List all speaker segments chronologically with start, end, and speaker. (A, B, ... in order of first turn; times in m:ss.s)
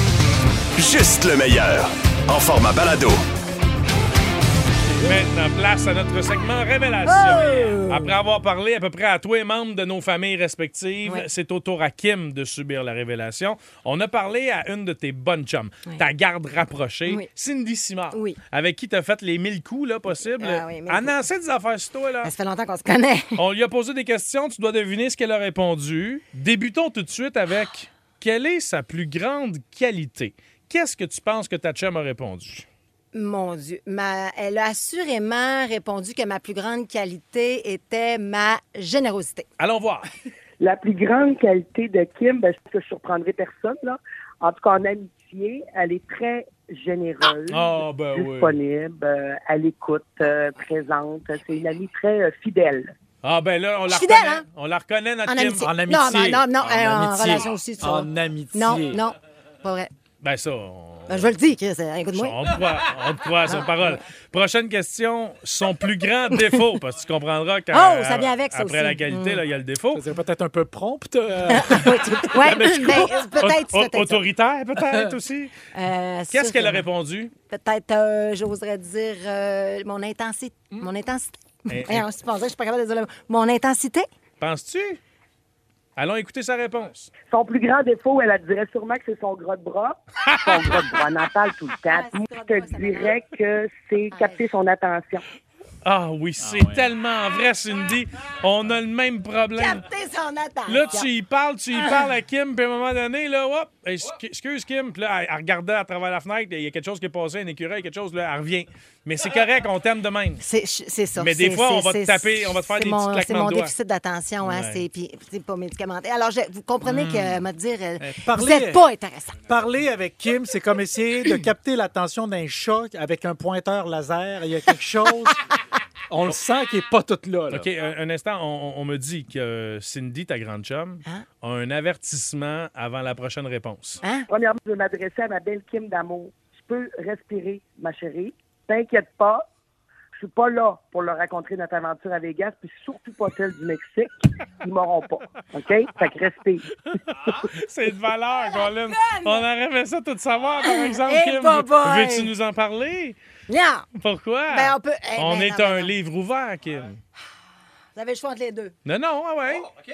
0:00.8-0:03.2 A
0:05.0-0:22.3 B
0:07.1-0:08.1 C
0:18.1-0:18.4 C
0:20.4-0:21.2 C
0:22.2-0:23.4 C
0:23.4-0:32.7 B
0:33.1-0:39.5 C
0:39.6-0:40.1 B
0:40.6-0:52.9 D
0:47.5-0:48.6 B
0:53.2-0:55.7 B
0:53.9-0:54.4 C
0:55.3-0:59.9 C
0:55.6-0:59.0 E
0:57.1-0:57.4 B
1:00.2-1:01.3 B
1:01.1-1:02.4 C
1:02.2-1:10.0 B
1:03.5-1:04.0 C
1:07.7-1:09.4 C
1:09.9-1:13.2 E
1:11.5-1:14.2 C
1:13.4-1:15.5 B
1:15.8-1:16.8 C
1:16.3-1:17.3 B
1:17.5-1:24.1 C
1:21.7-1:22.0 B
1:24.4-1:25.0 B
1:26.0-1:27.1 B
1:27.3-1:35.2 D
1:30.3-1:30.7 B
1:31.9-1:33.2 C
1:34.1-1:34.4 C
1:35.8-1:39.8 B
1:36.4-1:36.9 E
1:39.6-1:41.1 C
1:40.7-1:50.4 B
1:41.7-1:42.1 C
1:50.4-1:59.4 C
1:51.2-1:53.7 B
1:54.4-1:54.8 B
1:56.9-1:57.4 E
1:58.0-1:58.8 E
1:59.4-2:05.4 E
2:06.1-2:07.7 E
2:07.5-2:14.0 B
2:14.3-2:19.4 D
2:20.2-2:26.7 D
2:26.9-2:33.2 B
2:28.4-2:29.4 C
2:30.6-2:32.3 C
2:33.5-2:33.9 C
2:34.0-2:37.0 B
2:34.5-2:35.9 C
2:38.0-2:38.7 C
2:38.8-2:39.7 B